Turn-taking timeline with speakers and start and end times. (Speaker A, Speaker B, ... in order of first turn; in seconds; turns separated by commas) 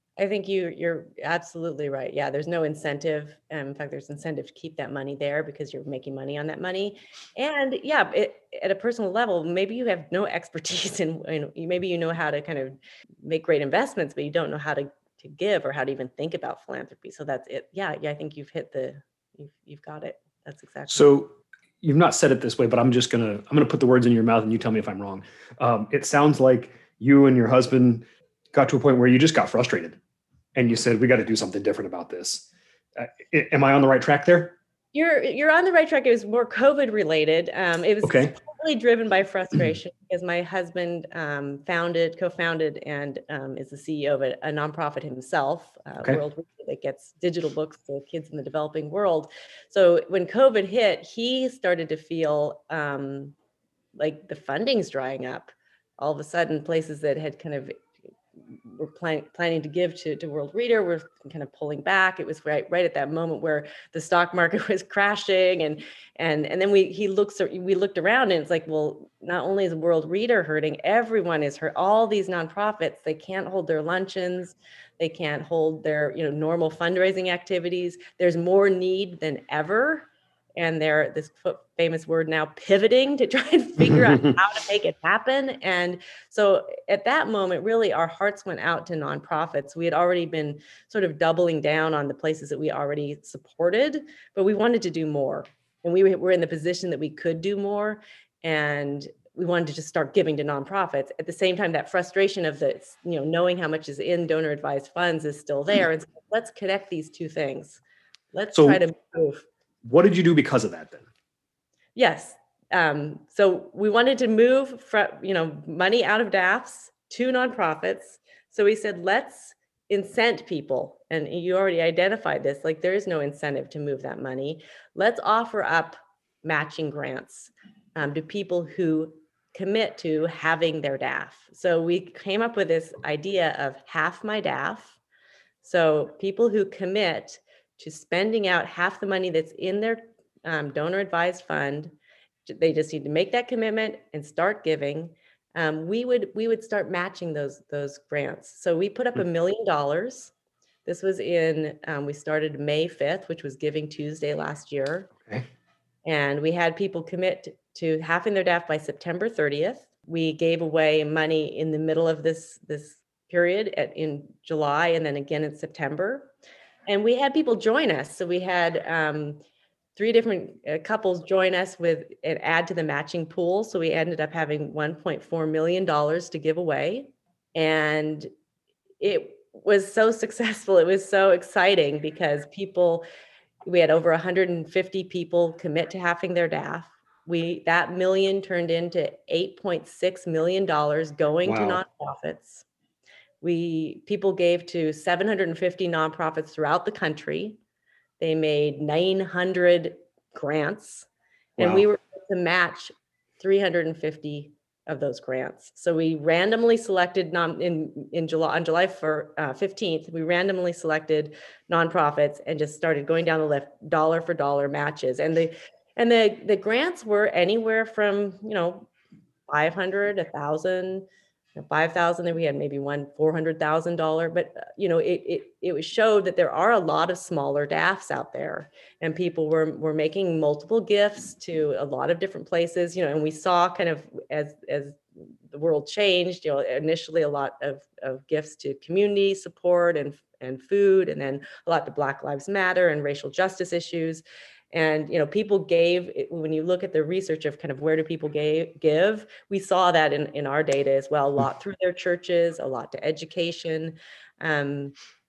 Speaker A: 0.2-21.1, Speaker B: 20.9-30.0, Speaker B: 30.6-34.6, Speaker A: 34.9-53.4, Speaker B: 38.0-38.3, Speaker A: 54.0-57.8, Speaker A: 58.7-107.8, Speaker A: 108.3-109.5, Speaker B: 108.5-108.8, Speaker B: 109.8-111.1, Speaker A: 112.0-135.0, Speaker A: 135.6-141.9, Speaker A: 142.5-150.3, Speaker A: 150.9-155.1, Speaker A: 156.1-166.3, Speaker A: 166.9-169.4, Speaker A: 170.0-178.3, Speaker A: 179.0-183.1, Speaker A: 183.7-192.7, Speaker B: 191.4-191.8, Speaker A: 193.4-197.6, Speaker A: 198.2-218.9, Speaker B: 201.6-201.9, Speaker A: 219.5-254.9